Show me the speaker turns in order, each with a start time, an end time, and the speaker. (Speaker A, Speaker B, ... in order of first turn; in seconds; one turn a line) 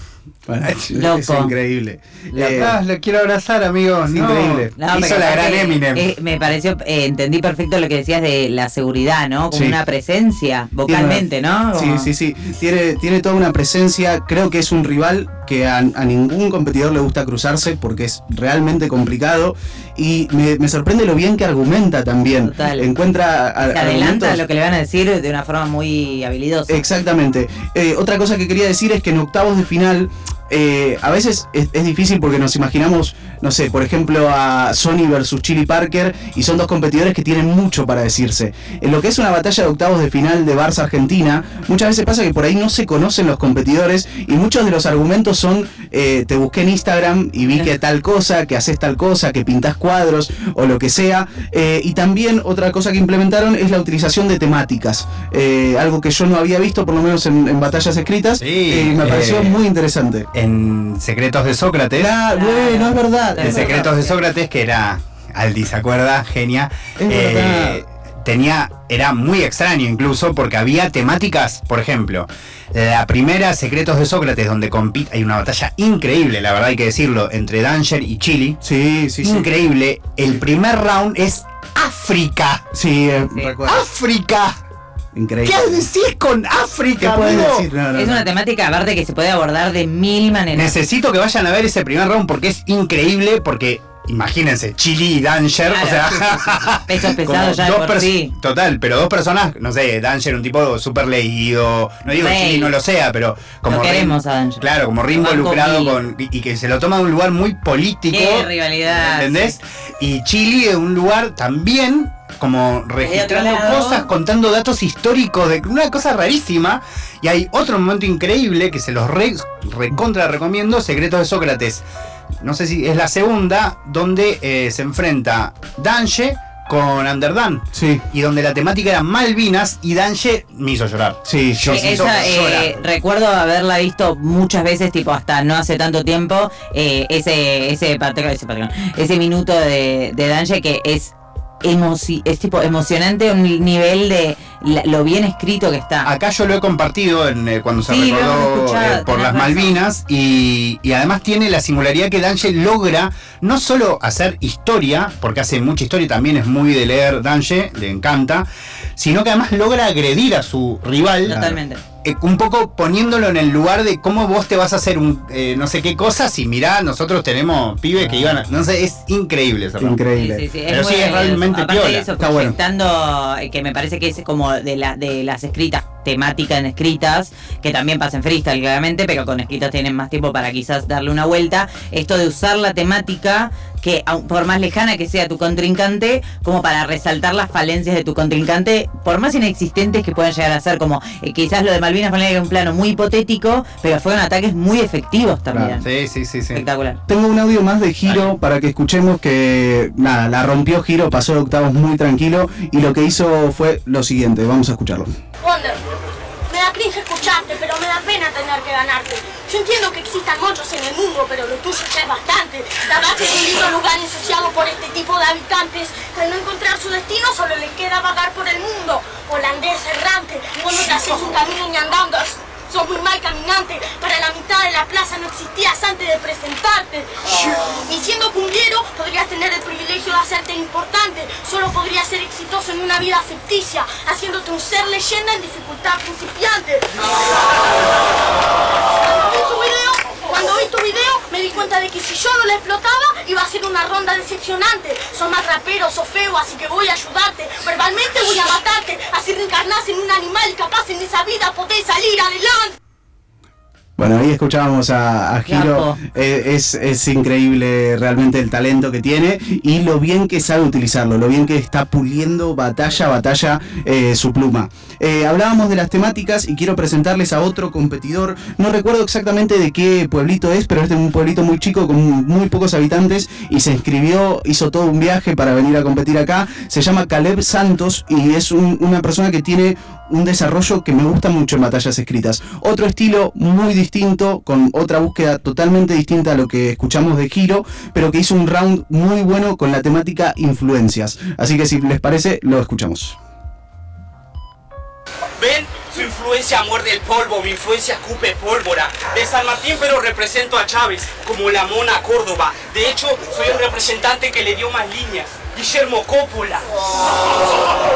Speaker A: 0.5-2.8
Speaker B: 0.9-1.5
Speaker C: 2.3-6.0
Speaker A: 4.1-4.7
Speaker B: 4.8-12.1
Speaker A: 9.5-9.8
Speaker A: 10.9-24.4
Speaker B: 22.4-22.9
Speaker B: 23.7-26.8
Speaker A: 26.7-60.3
Speaker C: 58.4-59.6
Speaker C: 60.3-62.1
Speaker A: 62.0-63.8
Speaker B: 62.3-64.2
Speaker C: 63.4-78.6
Speaker A: 67.0-67.8
Speaker A: 78.6-79.5
Speaker C: 79.2-82.6
Speaker A: 82.7-83.8
Speaker C: 83.7-84.6
Speaker A: 85.1-85.9
Speaker C: 85.4-87.7
Speaker A: 87.0-88.3
Speaker B: 87.9-90.8
Speaker C: 90.5-121.8
Speaker B: 95.7-96.3
Speaker B: 96.9-98.3
Speaker B: 102.1-102.7
Speaker B: 103.7-106.0
Speaker B: 108.1-109.5
Speaker B: 113.0-114.1
Speaker C: 122.4-132.7
Speaker A: 127.7-128.0
Speaker A: 131.2-132.6
Speaker B: 131.7-146.1
Speaker C: 146.0-170.0
Speaker B: 147.9-149.8
Speaker B: 161.2-161.8
Speaker A: 168.0-168.4
Speaker A: 169.8-170.4
Speaker B: 170.2-195.8
Speaker C: 170.7-172.1
Speaker A: 172.2-172.6
Speaker A: 195.5-195.8
Speaker C: 195.8-196.6
Speaker B: 196.5-197.0
Speaker A: 197.1-205.2
Speaker D: 205.4-205.8
Speaker D: 206.5-236.9
Speaker D: 239.0-252.8
Speaker A: 254.0-293.2
Speaker B: 255.5-256.0
Speaker E: 295.4-306.7